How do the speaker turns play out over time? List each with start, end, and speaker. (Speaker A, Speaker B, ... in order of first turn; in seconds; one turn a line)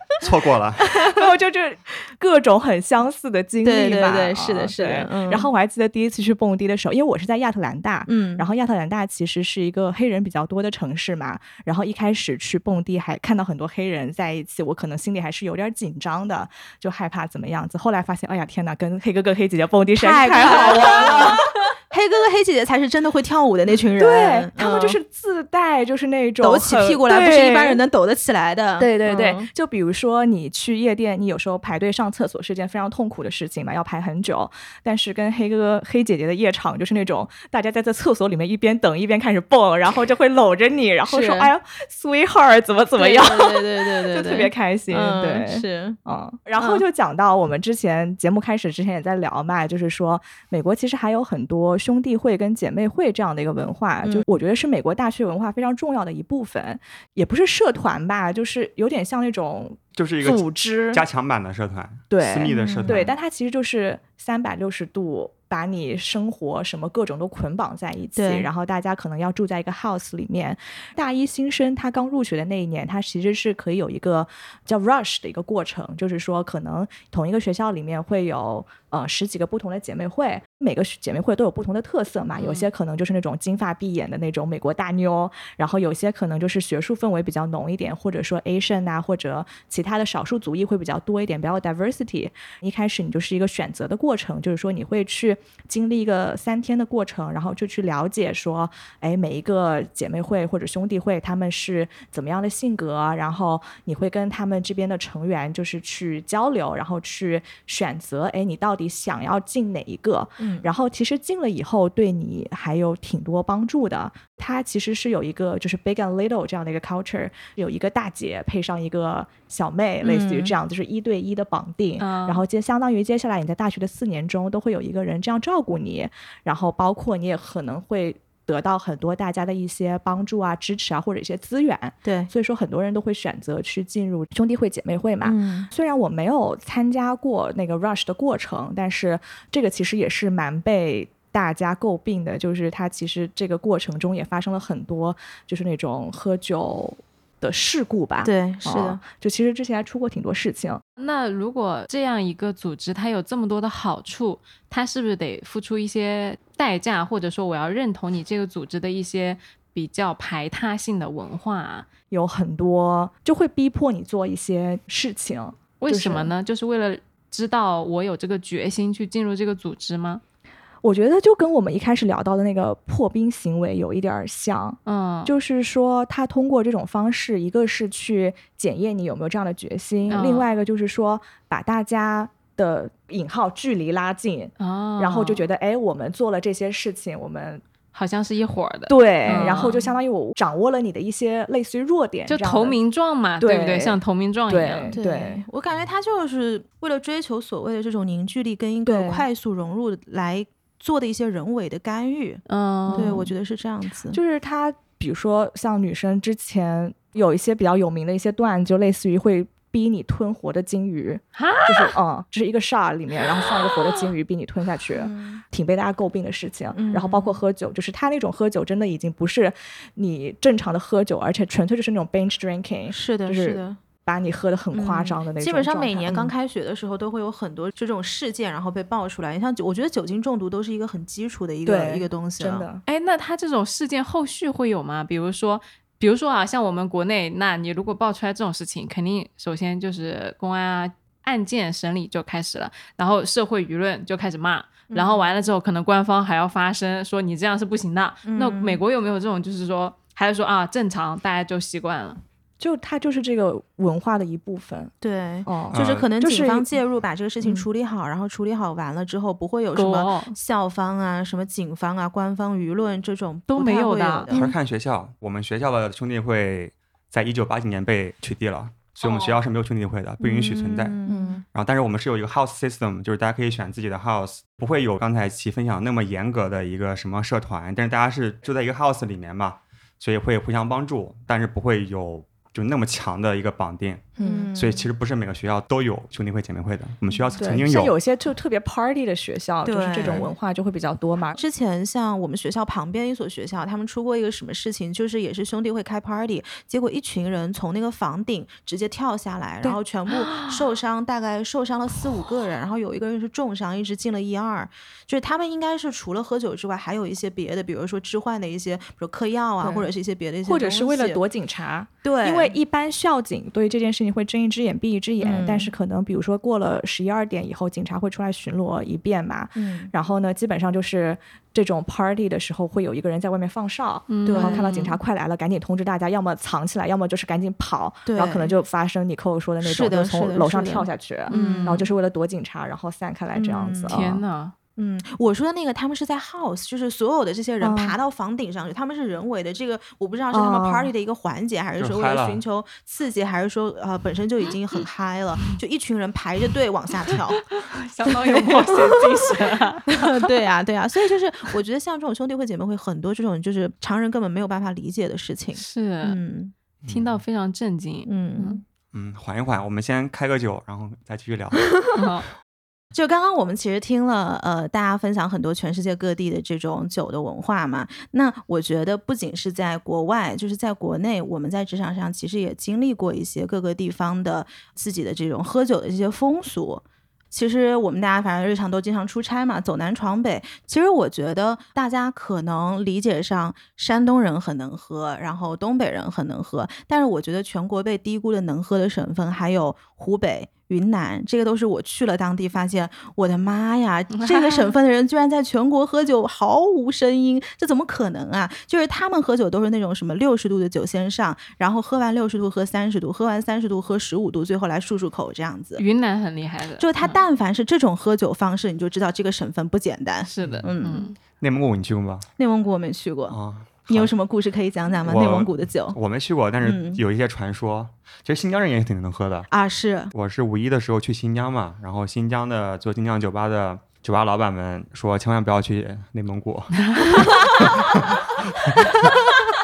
Speaker A: 0.2-0.9
Speaker B: 0.9-21.4
Speaker C: 3.6-5.5
Speaker C: 8.1-8.4
Speaker C: 20.0-25.0
Speaker B: 24.0-27.8
Speaker C: 26.4-29.5
Speaker B: 28.8-61.0
Speaker C: 41.1-41.5
Speaker C: 43.0-46.0
Speaker C: 46.6-46.8
Speaker A: 59.9-63.1
Speaker B: 62.1-150.8
Speaker C: 62.5-63.1
Speaker C: 68.2-68.5
Speaker D: 82.4-82.7
Speaker C: 110.4-110.7
Speaker C: 120.0-120.5
Speaker D: 122.0-122.4
Speaker C: 132.0-132.3
Speaker C: 135.2-135.7
Speaker C: 148.2-149.0
Speaker D: 151.0-161.9
Speaker B: 162.1-166.3
Speaker D: 165.8-170.2
Speaker B: 170.8-187.6
Speaker D: 174.8-175.3
Speaker D: 180.1-180.5
Speaker D: 184.6-185.4
Speaker D: 187.9-189.9
Speaker B: 188.9-192.8
Speaker D: 192.3-195.0
Speaker B: 193.4-195.4
Speaker C: 194.9-202.4
Speaker B: 198.8-199.2
Speaker D: 202.5-203.2
Speaker B: 202.9-203.3
Speaker C: 202.9-204.2
Speaker B: 204.1-226.3
Speaker D: 211.3-211.9
Speaker C: 214.9-215.4
Speaker C: 216.7-217.4
Speaker C: 222.9-223.8
Speaker C: 224.7-232.7
Speaker B: 231.6-232.8
Speaker D: 232.8-252.2
Speaker C: 244.9-245.3
Speaker C: 248.2-248.8
Speaker B: 252.6-254.9
Speaker C: 255.0-264.5
Speaker B: 255.4-256.7
Speaker A: 255.7-256.1
Speaker D: 259.7-260.3
Speaker D: 263.5-264.3
Speaker A: 264.3-270.9
Speaker D: 269.0-269.4
Speaker C: 270.2-271.4
Speaker B: 271.1-271.4
Speaker A: 271.5-287.9
Speaker B: 284.2-284.5
Speaker C: 284.2-284.9
Speaker B: 287.4-291.4
Speaker C: 289.6-290.3
Speaker A: 290.0-290.3
Speaker C: 291.4-311.2
Speaker D: 300.1-300.6
Speaker B: 309.6-309.9
Speaker B: 310.4-334.2
Speaker C: 312.0-312.5
Speaker C: 315.2-315.7
Speaker C: 319.5-319.9
Speaker D: 324.1-325.0
Speaker C: 324.2-324.6
Speaker C: 328.1-328.5
Speaker C: 329.6-331.9
Speaker D: 331.3-331.8
Speaker C: 333.3-334.1
Speaker D: 333.9-334.5
Speaker C: 334.8-347.4
Speaker B: 337.6-337.9
Speaker B: 340.3-340.9
Speaker A: 341.8-342.4
Speaker D: 347.1-350.3
Speaker C: 348.1-349.3
Speaker C: 349.9-356.5
Speaker D: 355.6-356.2
Speaker A: 356.8-357.2
Speaker D: 356.9-358.6
Speaker C: 358.1-358.6
Speaker A: 358.9-361.6
Speaker D: 361.9-362.3
Speaker C: 362.9-405.8
Speaker D: 394.1-394.7
Speaker D: 405.8-407.2
Speaker C: 406.8-411.1
Speaker D: 410.2-411.1
Speaker A: 411.4-412.2
Speaker C: 412.4-413.4
Speaker A: 413.3-414.1
Speaker C: 413.9-416.0
Speaker A: 415.0-419.5
Speaker C: 416.6-417.0
Speaker C: 419.5-420.1
Speaker A: 420.1-428.2